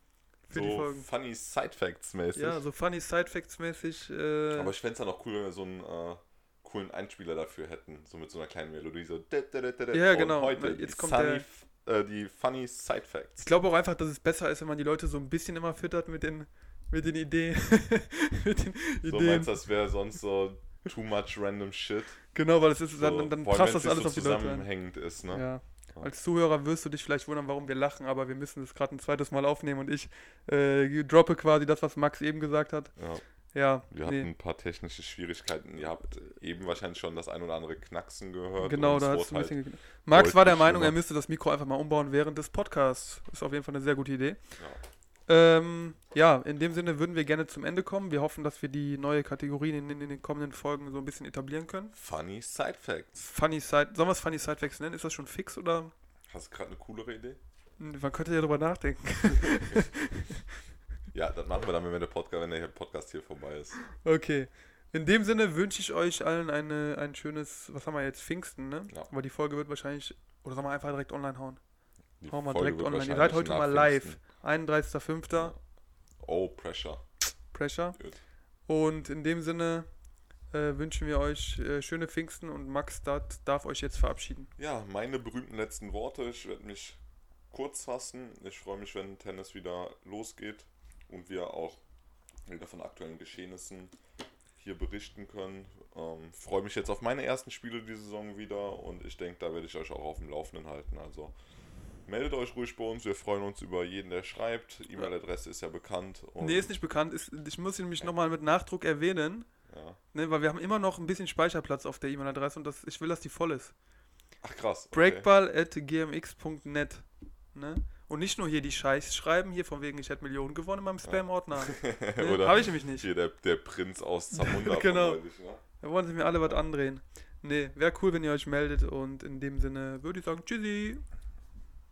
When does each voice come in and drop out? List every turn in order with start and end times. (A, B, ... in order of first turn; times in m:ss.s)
0:00.4-0:01.1 A
0:00.5-0:02.6 B
0:02.4-0:04.7 A
0:04.5-0:13.5 B
0:09.9-0:11.5 A
0:13.4-0:19.6 A
0:19.0-0:26.1 B
0:22.3-0:34.3 A
0:33.0-0:41.0 B
0:38.6-0:52.0 A
0:51.9-0:53.2 B
0:53.2-0:55.9 A
0:56.3-0:57.4 B
0:57.8-1:00.0 A
1:01.1-1:03.8 B
1:04.0-1:11.6 A
1:12.2-1:14.2 B
1:12.3-1:15.5 A
1:16.2-1:17.1 B
1:17.5-1:18.0 A
1:18.0-1:18.2 B
1:18.7-1:19.9 A
1:20.5-1:24.5 A
1:24.6-1:31.8 B
1:32.5-1:33.9 B
1:34.6-1:41.4 B
1:42.0-1:46.7 B
1:46.4-1:49.5 A
1:49.7-1:50.0 B
1:50.1-1:53.8 A
1:54.4-1:55.3 B
1:54.9-2:03.1 A
2:01.0-2:05.6 B
2:04.3-2:05.2 A
2:05.7-2:11.0 A